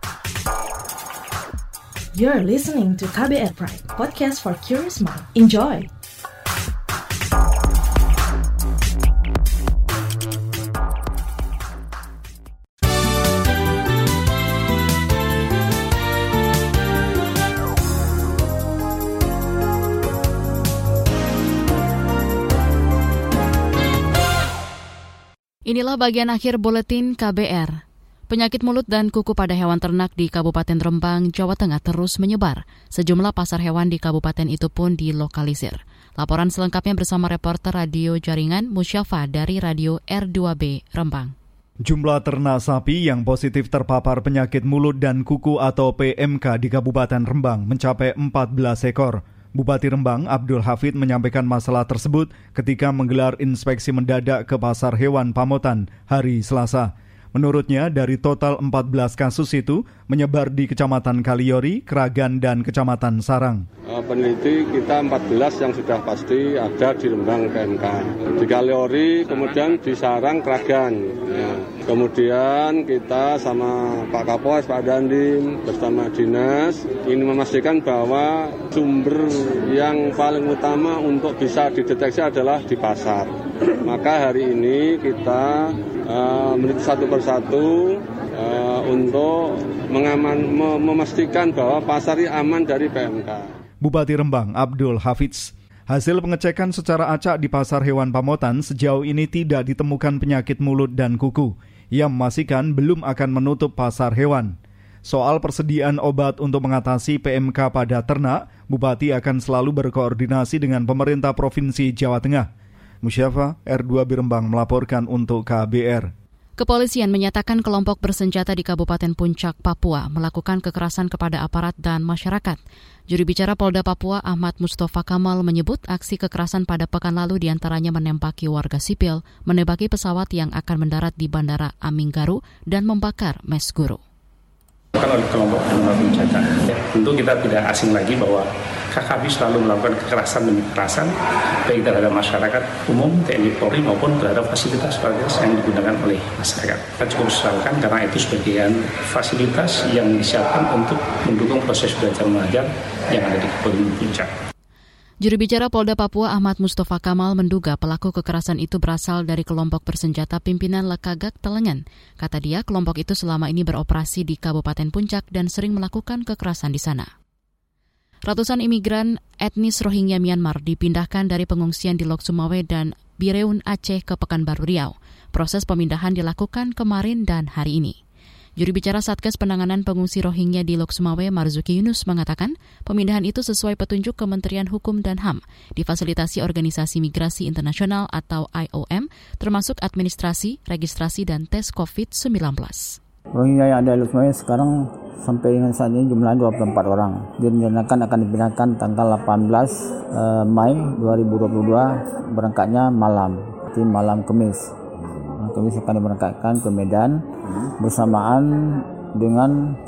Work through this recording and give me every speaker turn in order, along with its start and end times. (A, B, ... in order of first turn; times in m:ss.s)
0:02.1-0:05.9 A
0:25.7-0:27.8 B
0:28.3-0:41.3 B
0:41.8-1:03.6 C
1:03.9-1:33.5 D
1:33.8-1:44.6 C
1:45.1-1:52.5 C
1:53.0-1:56.1 C
1:56.6-2:14.0 B
2:15.0-2:21.1 E
2:21.7-2:34.3 E
2:35.2-2:47.1 B
2:48.3-2:58.0 B
2:58.6-3:13.0 B
3:13.4-3:24.7 F
3:25.4-3:27.2 F
3:27.8-3:29.5 F